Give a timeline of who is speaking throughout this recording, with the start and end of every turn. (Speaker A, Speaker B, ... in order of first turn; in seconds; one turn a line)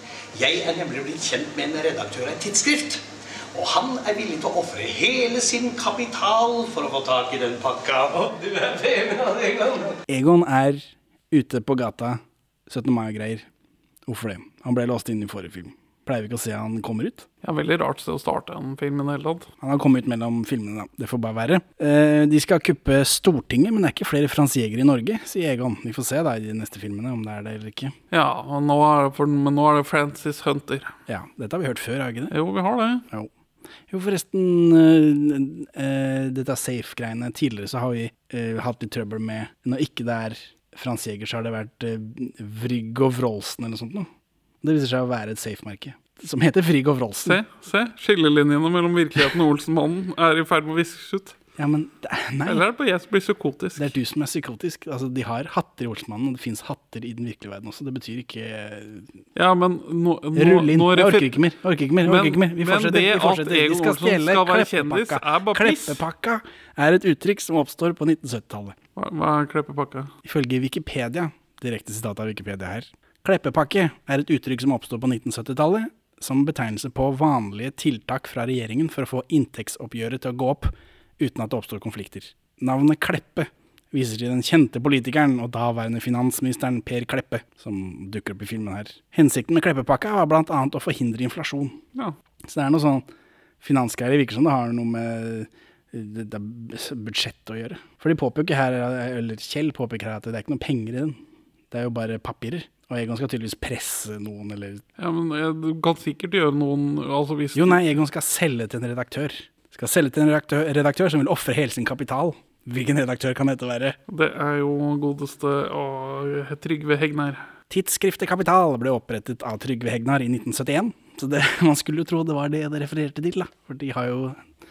Speaker A: 0.3-9.9
Speaker B: 10.1-13.5
Speaker B: 14.1-17.3
Speaker C: 17.4-19.5
Speaker B: 19.6-27.9
Speaker C: 28.1-30.9
Speaker B: 31.1-32.3
Speaker C: 32.3-33.0
Speaker B: 33.9-44.1
Speaker B: 44.6-47.4
Speaker C: 47.2-51.4
Speaker B: 51.6-52.6
Speaker C: 52.5-53.9
Speaker B: 53.8-59.1
Speaker C: 59.4-61.4
Speaker B: 60.4-68.8
Speaker C: 62.0-66.0
Speaker C: 69.0-70.1
Speaker B: 70.2-91.8
Speaker B: 92.5-93.0
Speaker B: 93.6-101.2
Speaker B: 101.7-104.8
Speaker C: 105.0-107.8
Speaker B: 107.5-114.0
Speaker C: 114.1-117.5
Speaker B: 117.7-124.4